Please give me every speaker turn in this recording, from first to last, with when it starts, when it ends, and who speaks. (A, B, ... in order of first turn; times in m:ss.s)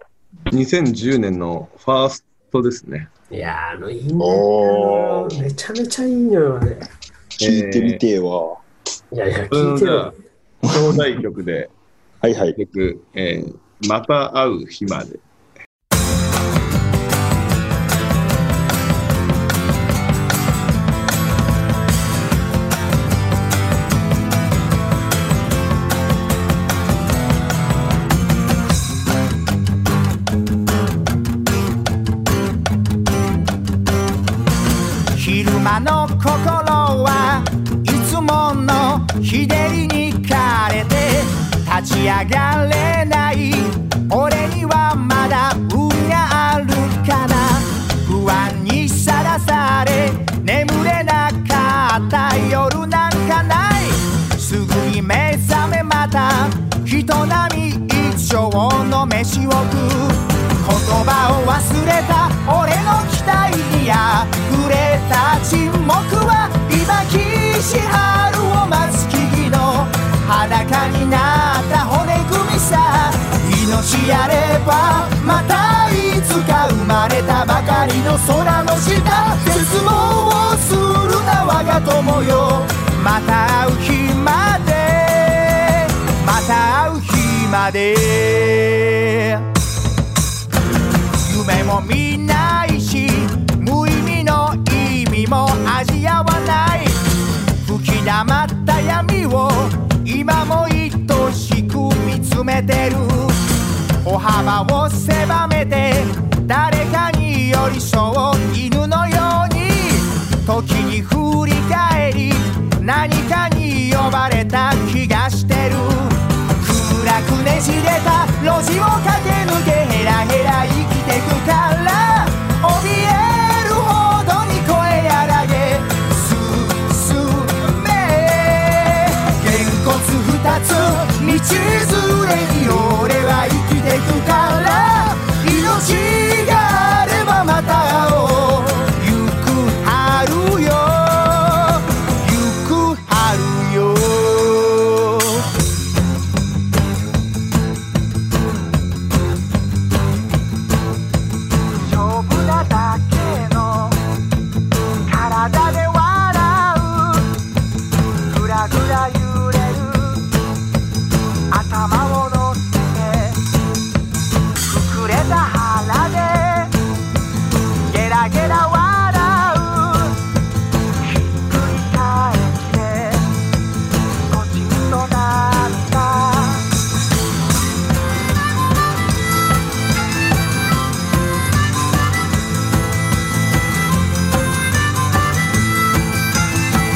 0:00.5-0:03.1 A
0:03.3-0:06.8 B
0:04.2-0:05.4 C
0:07.4-0:08.6 C
0:07.4-0:08.0 A
0:09.1-0:10.1 B
0:09.5-0:11.7 A
0:10.7-0:11.0 C
0:12.2-0:12.6 C
0:12.6-0:15.2 A
0:35.1-1:29.4 D
1:31.2-1:37.0 D
1:37.6-1:43.4 D
1:44.0-2:25.4 D
2:31.8-2:34.0 D
2:35.1-2:37.3 D
2:38.2-2:40.3 D
2:41.5-2:43.4 D
2:44.7-2:46.7 D
2:47.9-2:50.2 D
2:51.0-2:53.4 D
2:54.3-2:56.7 D